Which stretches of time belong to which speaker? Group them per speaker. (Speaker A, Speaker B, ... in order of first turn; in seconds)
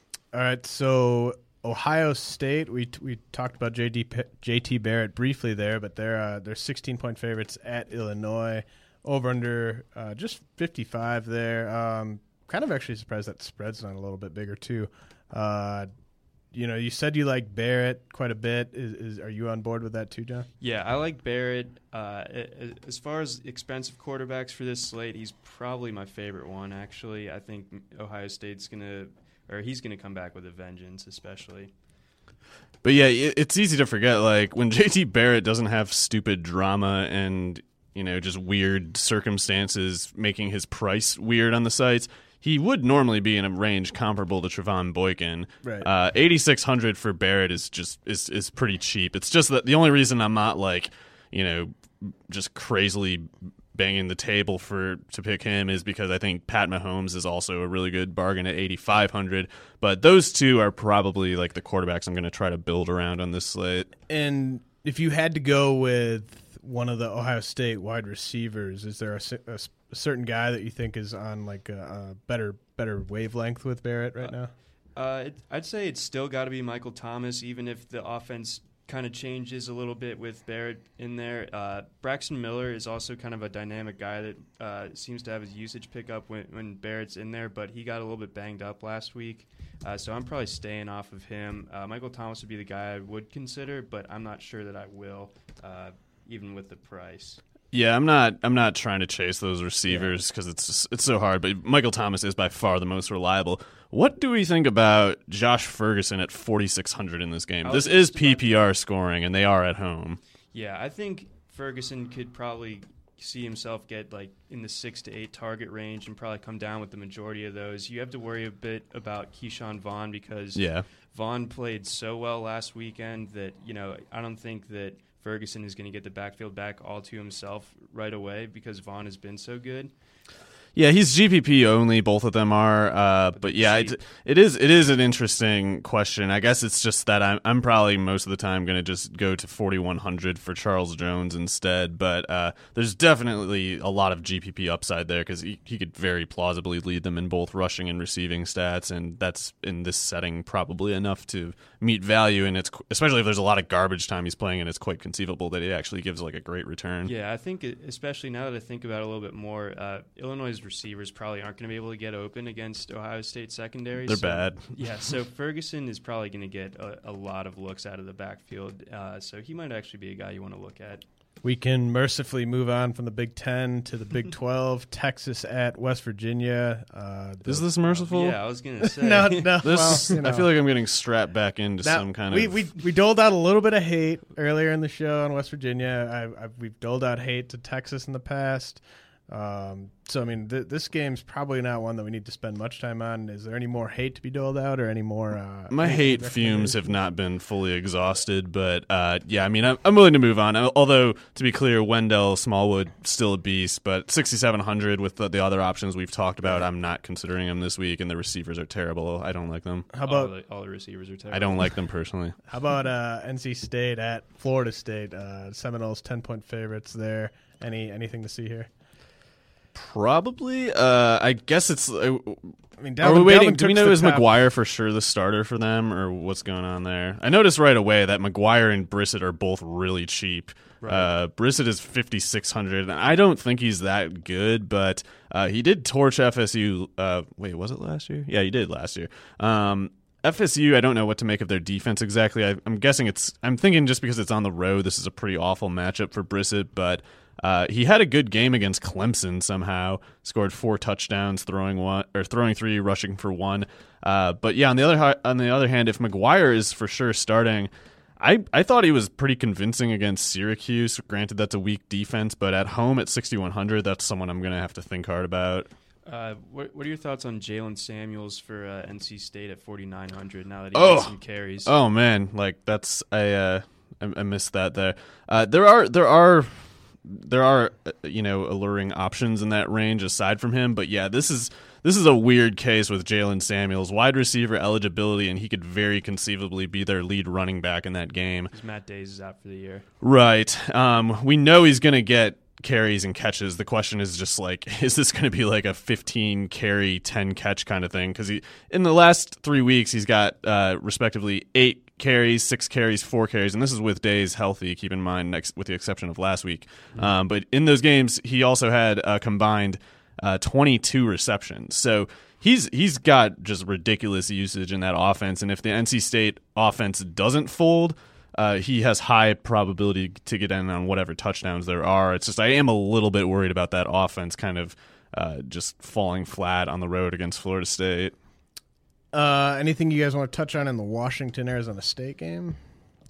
Speaker A: 0.3-15.9, 16.5-20.5, 45.6-45.9, 64.1-74.5, 171.4-178.0, 179.0-180.5, 181.8-196.8, 209.9-210.3, 212.5-218.7, 222.8-224.3, 329.1-332.6
Speaker B: 20.6-31.7, 75.0-97.4, 107.6-108.6, 110.5-129.9, 133.3-134.0, 157.0-171.0, 178.1-180.1, 210.0-211.7, 230.8-231.1, 266.1-271.7, 288.5-289.9
Speaker C: 32.8-63.9, 97.7-110.2, 120.5-120.8, 130.7-157.1, 164.0-164.6, 177.4-178.3, 179.6-182.6, 195.7-209.9, 211.3-212.3, 219.7-265.7, 270.7-288.5, 290.0-328.1